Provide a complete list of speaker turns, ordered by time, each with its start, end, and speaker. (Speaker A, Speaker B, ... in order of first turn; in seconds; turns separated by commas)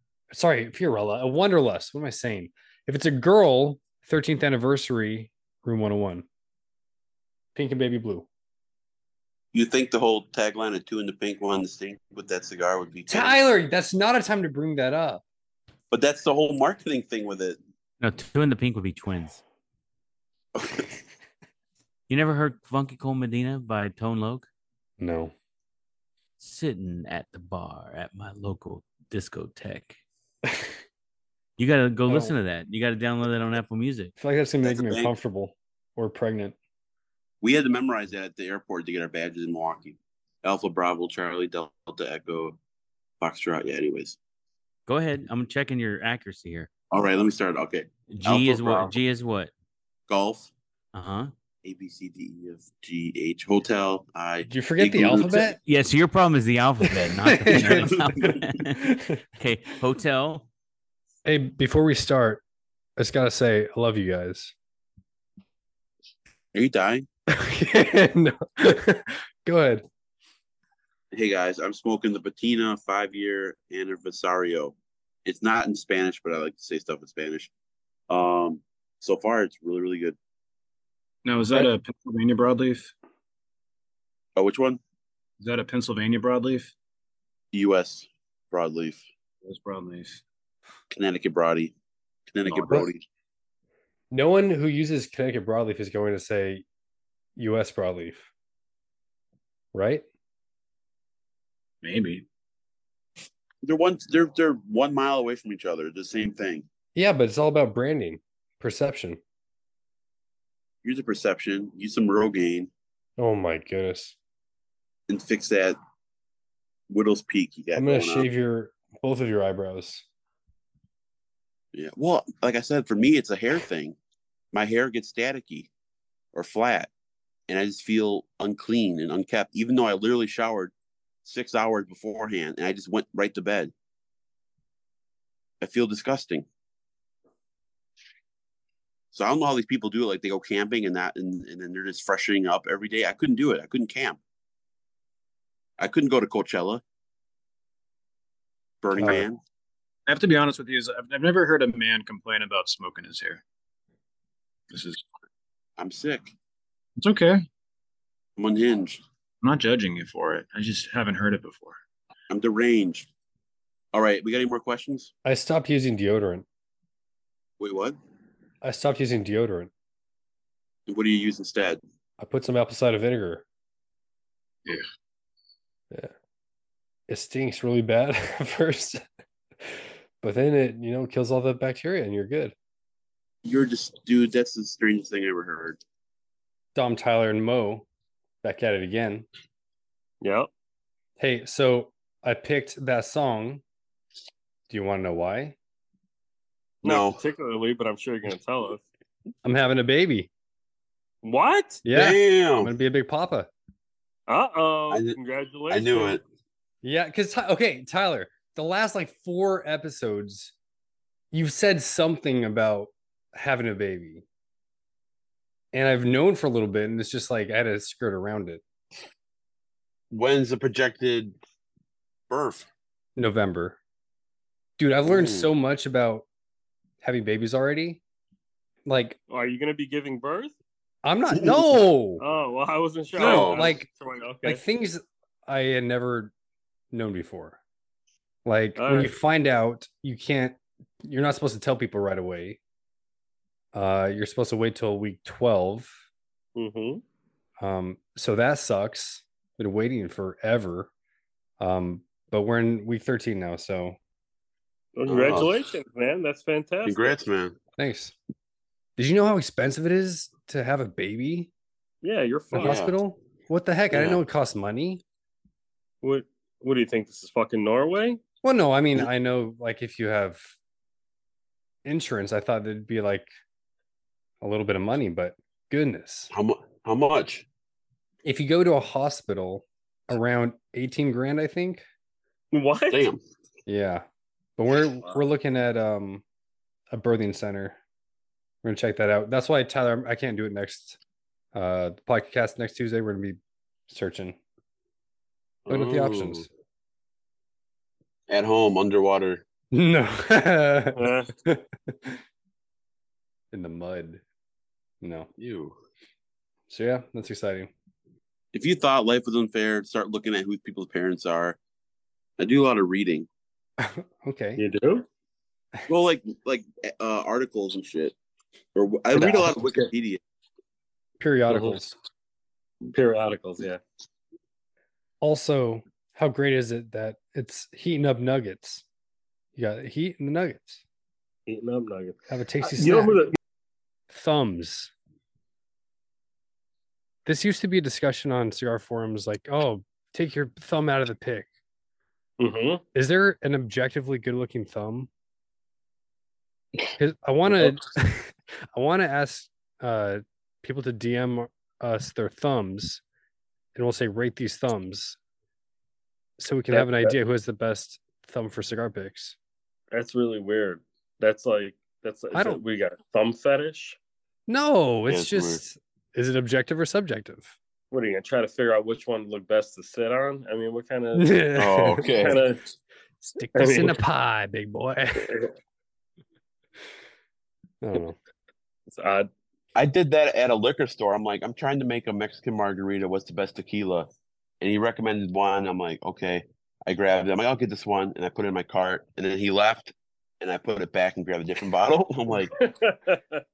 Speaker A: 0.3-6.2, Speaker A: 7.5-8.3, Speaker B: 9.5-13.4, Speaker A: 13.1-15.2, Speaker B: 15.9-17.6, Speaker C: 18.0-19.4, Speaker B: 20.6-20.9, Speaker C: 22.1-24.5, Speaker A: 25.0-25.3, Speaker C: 26.4-30.0, Speaker C: 31.6-34.1, Speaker A: 32.1-32.3, Speaker A: 34.2-36.5, Speaker B: 34.6-35.1, Speaker B: 37.4-42.6, Speaker B: 43.2-44.2, Speaker C: 44.9-46.7, Speaker B: 46.9-48.9, Speaker C: 48.1-49.5, Speaker B: 50.1-50.5, Speaker C: 50.9-51.3, Speaker B: 51.6-55.6, Speaker A: 54.5-55.6, Speaker C: 55.6-58.8, Speaker A: 57.2-59.2, Speaker B: 57.5-58.5, Speaker C: 59.4-60.5, Speaker A: 61.2-62.4, Speaker A: 63.0-64.5, Speaker B: 66.5-67.1, Speaker A: 67.3-69.8, Speaker B: 71.1-77.5, Speaker B: 78.1-80.2, Speaker D: 81.2-82.9, Speaker B: 84.3-84.8, Speaker D: 85.4-86.7, Speaker B: 87.5-89.0, Speaker D: 89.4-90.2, Speaker B: 90.9-91.7, Speaker B: 92.3-93.0, Speaker D: 92.5-92.8, Speaker A: 94.1-96.6, Speaker A: 97.4-98.3, Speaker A: 99.7-100.0, Speaker D: 101.8-102.2, Speaker B: 103.6-106.7, Speaker A: 106.9-109.2, Speaker B: 110.8-112.7, Speaker A: 113.2-114.2, Speaker B: 115.1-115.8, Speaker B: 116.9-118.3, Speaker A: 117.7-120.0, Speaker B: 121.7-124.0, Speaker B: 124.5-125.7, Speaker B: 126.3-126.9, Speaker B: 127.5-130.7, Speaker B: 131.2-133.7, Speaker B: 135.6-136.4, Speaker B: 139.1-144.2, Speaker B: 145.8-146.8, Speaker B: 148.8-149.4, Speaker A: 149.0-149.2, Speaker D: 150.1-153.4, Speaker D: 154.7-155.0, Speaker B: 155.8-156.3, Speaker D: 157.0-157.4, Speaker B: 158.4-159.0, Speaker D: 159.4-161.8, Speaker B: 162.3-163.1, Speaker B: 163.9-165.1, Speaker A: 165.2-166.4, Speaker B: 167.6-168.0, Speaker A: 168.6-169.7, Speaker B: 170.9-171.8, Speaker A: 172.2-173.4, Speaker A: 177.1-179.0, Speaker A: 180.2-182.5, Speaker B: 183.4-185.8, Speaker A: 186.7-187.8, Speaker A: 188.4-189.2, Speaker E: 190.2-190.5, Speaker A: 191.2-193.6, Speaker A: 194.7-195.6, Speaker B: 196.8-197.2, Speaker E: 196.8-198.8, Speaker A: 199.4-200.3, Speaker E: 201.2-201.8, Speaker A: 201.8-203.5, Speaker B: 201.9-202.7, Speaker E: 204.3-206.2, Speaker B: 204.9-205.2, Speaker B: 205.7-206.2, Speaker A: 206.8-210.5, Speaker A: 211.3-214.2, Speaker A: 215.7-218.6, Speaker B: 220.1-221.3, Speaker B: 222.3-222.7, Speaker A: 223.2-223.8, Speaker A: 224.8-226.2, Speaker B: 225.0-225.5, Speaker A: 227.0-228.0, Speaker A: 228.8-229.2, Speaker E: 229.3-230.5, Speaker A: 231.0-232.2, Speaker E: 232.2-234.6, Speaker A: 233.2-233.8, Speaker B: 233.2-233.7, Speaker A: 234.4-236.3, Speaker A: 236.9-237.6, Speaker A: 238.4-242.6, Speaker E: 238.8-239.1, Speaker A: 243.7-245.9, Speaker E: 246.6-247.0, Speaker A: 247.6-250.9, Speaker A: 251.6-254.0, Speaker E: 254.9-257.2, Speaker B: 255.1-255.7, Speaker B: 256.8-257.6, Speaker A: 257.8-258.1, Speaker A: 259.0-261.5, Speaker E: 262.0-262.8, Speaker A: 262.5-265.0, Speaker B: 262.6-262.9, Speaker B: 263.9-264.2, Speaker E: 266.0-268.2, Speaker A: 268.4-270.5, Speaker A: 271.8-273.3, Speaker A: 274.4-276.3, Speaker B: 276.3-277.4, Speaker A: 278.2-281.8, Speaker E: 282.5-283.1, Speaker B: 282.9-283.2, Speaker A: 283.7-284.0, Speaker A: 284.6-286.2, Speaker A: 286.9-287.8, Speaker A: 288.6-291.0, Speaker A: 291.5-293.4, Speaker A: 293.9-294.4, Speaker B: 295.7-296.4, Speaker A: 295.7-296.5, Speaker B: 298.3-299.4, Speaker A: 299.7-302.2, Speaker E: 300.9-301.3, Speaker A: 303.5-304.2, Speaker A: 305.0-305.3, Speaker B: 305.4-305.8, Speaker A: 306.7-307.7, Speaker B: 308.5-311.6, Speaker B: 312.4-313.3, Speaker A: 313.8-314.6, Speaker E: 314.6-315.1, Speaker B: 315.9-318.1, Speaker B: 318.7-320.2, Speaker A: 319.1-319.6, Speaker A: 321.2-321.9, Speaker E: 321.5-321.8, Speaker E: 322.9-323.8, Speaker A: 325.2-328.8, Speaker A: 329.6-330.8, Speaker E: 331.5-333.4, Speaker A: 332.3-333.2, Speaker A: 334.1-334.9, Speaker A: 337.2-341.5, Speaker E: 342.4-342.8, Speaker A: 342.9-345.1, Speaker A: 347.0-353.0, Speaker A: 353.7-355.2, Speaker A: 356.4-359.4, Speaker E: 359.9-364.0, Speaker A: 362.3-362.6, Speaker A: 364.5-367.5, Speaker B: 365.1-365.6, Speaker E: 367.9-371.3, Speaker A: 371.1-372.1, Speaker B: 371.6-372.4, Speaker E: 372.1-372.6, Speaker A: 373.2-375.4, Speaker E: 373.5-374.0, Speaker A: 377.8-378.2, Speaker E: 378.9-379.3, Speaker B: 379.8-384.1, Speaker B: 384.6-392.5, Speaker E: 392.5-393.4